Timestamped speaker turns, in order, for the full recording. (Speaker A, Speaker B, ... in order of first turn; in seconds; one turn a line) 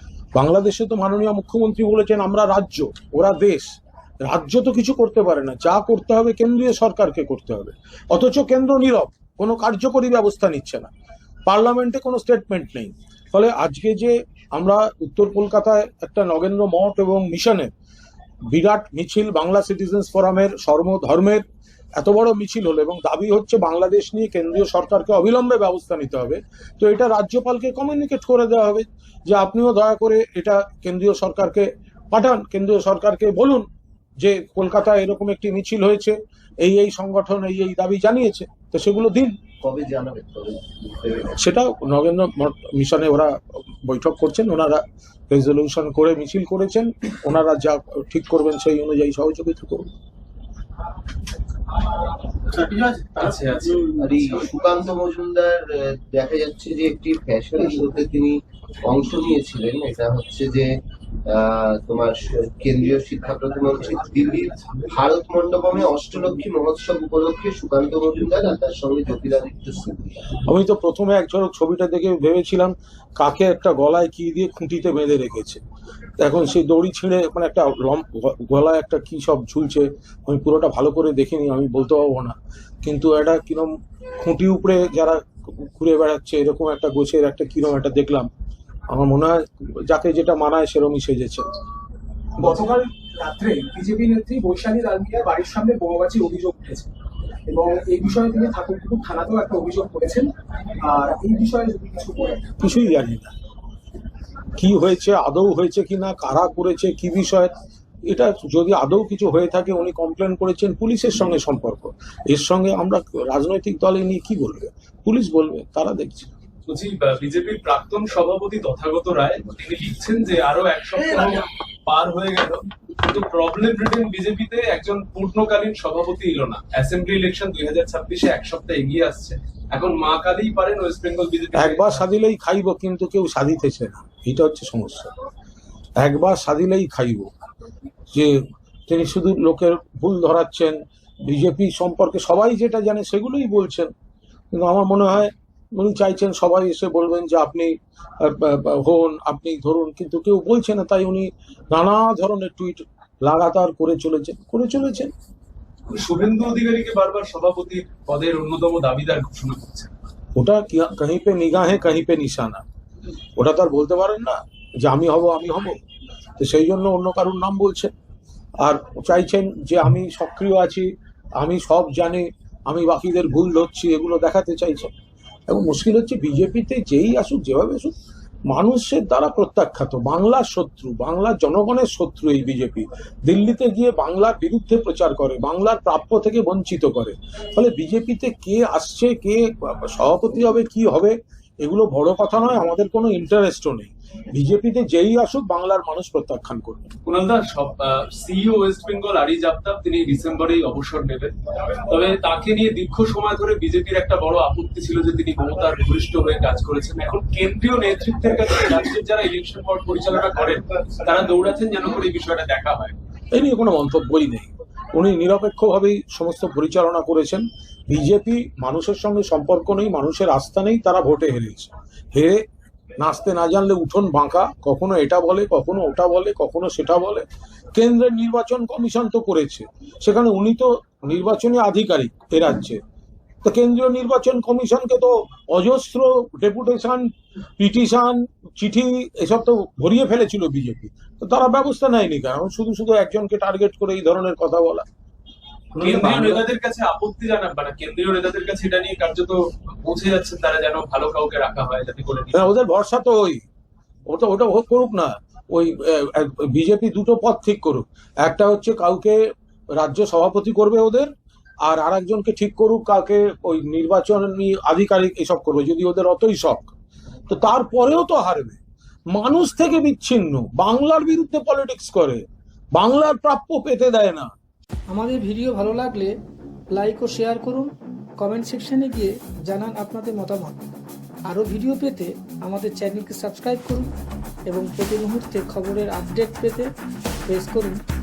Speaker A: 0.3-3.7
Speaker A: 4.2-10.9
Speaker A: 11.5-17.7
Speaker A: 18.5-21.4
Speaker A: 22.0-33.6
Speaker A: 34.2-39.4
Speaker B: 39.6-41.3
Speaker A: 41.4-49.9
Speaker C: 52.5-54.4
Speaker B: 53.9-60.7
Speaker B: 61.3-70.3
Speaker A: 70.4-75.6
Speaker A: 76.2-88.3
Speaker A: 88.9-91.5
Speaker D: 92.4-96.9
Speaker D: 97.5-102.5
Speaker A: 102.6-103.3
Speaker A: 104.6-107.5
Speaker A: 108.1-116.3
Speaker C: 116.7-132.0
Speaker A: 131.6-135.1
Speaker A: 136.0-137.3
Speaker A: 138.9-143.9
Speaker A: 144.5-155.1
Speaker C: 155.9-159.9
Speaker A: 160.3-162.6
Speaker A: 163.4-165.8
Speaker A: 166.4-167.9
Speaker A: 168.6-174.9
Speaker A: 175.5-177.9
Speaker A: 178.5-196.9
Speaker C: 197.1-201.3
Speaker C: 201.9-212.9
Speaker A: 213.3-222.4
Speaker A: 223.0-232.8
Speaker A: 233.4-244.9
Speaker A: 245.7-246.4
Speaker C: 245.8-252.5
Speaker A: 252.3-253.4
Speaker A: 254.1-259.2
Speaker A: 259.7-261.1
Speaker A: 261.6-266.7
Speaker A: 267.3-268.6
Speaker A: 269.1-272.2
Speaker A: 272.7-274.3
Speaker E: 274.9-276.1
Speaker E: 276.7-280.6
Speaker E: 281.3-283.9
Speaker E: 284.5-286.7
Speaker E: 287.3-287.8